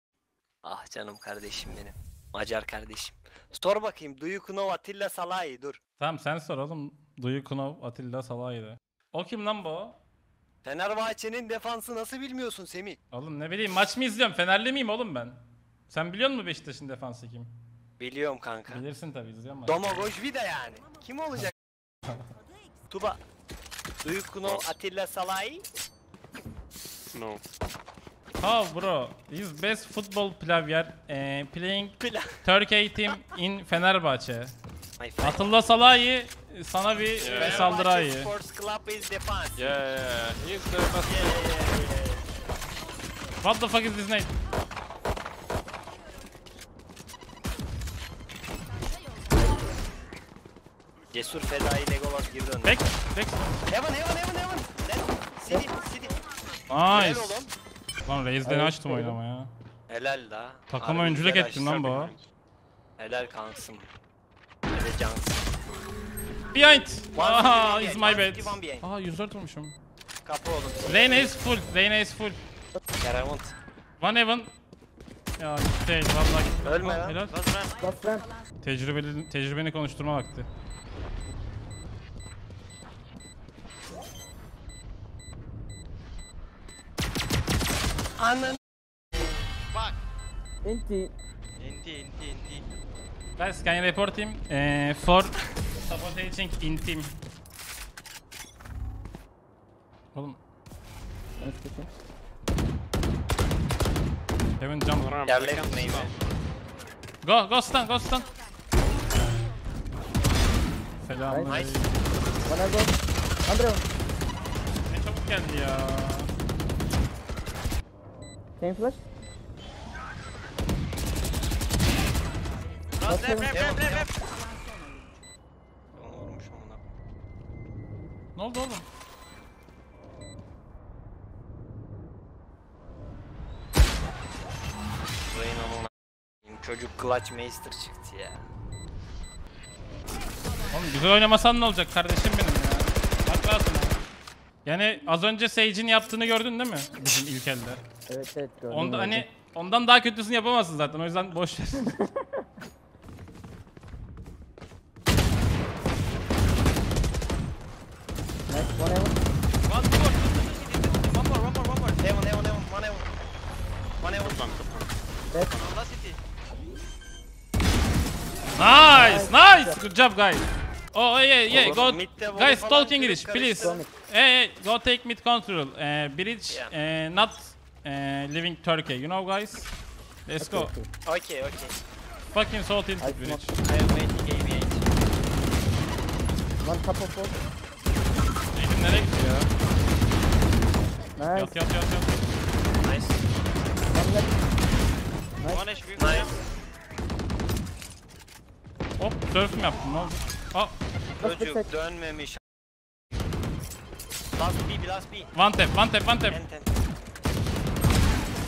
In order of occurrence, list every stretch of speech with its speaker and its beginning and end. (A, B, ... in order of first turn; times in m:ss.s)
0:00.6-0:05.8 A
0:06.0-0:10.0 B
0:10.6-0:13.0 A
0:13.1-0:17.5 B
0:18.0-0:18.8 A
0:18.7-0:20.1 B
0:19.6-0:21.5 A
0:22.9-0:23.2 A
0:24.0-0:25.6 A
0:24.4-0:24.7 C
0:27.1-0:27.4 C
0:28.4-0:34.5 B
0:32.0-0:32.4 A
0:35.0-0:35.5 A
0:35.2-0:38.3 B
0:37.2-0:37.8 C
0:37.3-0:39.8 A
0:39.6-0:41.4 C
0:41.0-0:42.2 A
0:43.4-0:44.3 B
0:51.1-0:52.8 A
0:52.6-0:53.5 B
0:53.7-0:56.2 A
0:56.7-0:57.4 B
0:56.9-0:57.5 A
0:58.0-0:59.5 B
0:58.4-0:59.2 D
0:59.9-1:01.7 A
1:00.7-1:02.1 B
1:01.6-1:02.3 C
1:03.0-1:03.9 A
1:04.7-1:05.5 A
1:06.5-1:09.7 B
1:07.1-1:08.9 A
1:10.2-1:11.3 A
1:10.9-1:12.4 B
1:13.0-1:13.5 A
1:14.0-1:14.5 B
1:15.4-1:17.4 B
1:16.6-1:17.2 A
1:17.3-1:17.8 E
1:17.8-1:18.3 D
1:18.6-1:20.5 B
1:28.2-1:28.6 A
1:29.7-1:30.0 E
1:30.6-1:31.1 D
1:31.6-1:32.7 E
1:33.4-1:37.2 B
1:40.1-1:40.4 B
1:41.4-1:41.9 D
1:44.6-1:45.1 B
1:44.9-1:46.2 C
1:45.2-1:46.1 A
1:47.2-1:48.3 B
1:51.0-1:51.9 B
1:51.3-1:51.6 D
1:51.5-1:51.8 A
1:52.4-1:52.9 D
1:53.4-1:53.9 D
1:54.8-1:56.3 B
1:58.6-1:59.0 D
2:03.0-2:04.2 E
2:03.0-2:03.6 D
2:03.5-2:04.1 A
2:05.9-2:06.8 A
2:08.4-2:08.8 B
2:15.3-2:15.9 A
2:16.4-2:18.4 A
2:20.7-2:24.0 B
2:24.6-2:27.8 B
2:28.1-2:29.3 D
2:28.7-2:32.0 B
2:38.5-2:39.2 D
2:39.6-2:42.0 E
2:42.0-2:43.1 A
2:44.0-2:44.4 A
2:44.1-2:44.9 C
2:45.5-2:46.2 E
2:48.6-2:59.7 B
2:48.9-2:49.8 D
2:51.5-2:53.8 A
2:53.6-2:53.9 D
2:56.5-2:56.7 A
3:00.2-3:00.7 B
3:00.4-3:00.9 D
3:01.0-3:01.8 A
3:02.3-3:03.6 B
3:03.0-3:03.4 D
3:03.6-3:04.8 A
3:06.6-3:07.4 D
3:08.5-3:09.5 B
3:11.2-3:11.5 D
3:11.3-3:12.2 B
3:12.8-3:13.2 A
3:13.9-3:14.4 D
3:15.5-3:16.4 E
3:16.0-3:16.3 A
3:19.0-3:20.7 B
3:21.2-3:21.6 D
3:21.2-3:22.4 A
3:24.3-3:25.3 A
3:25.3-3:26.4 B
3:26.3-3:26.7 A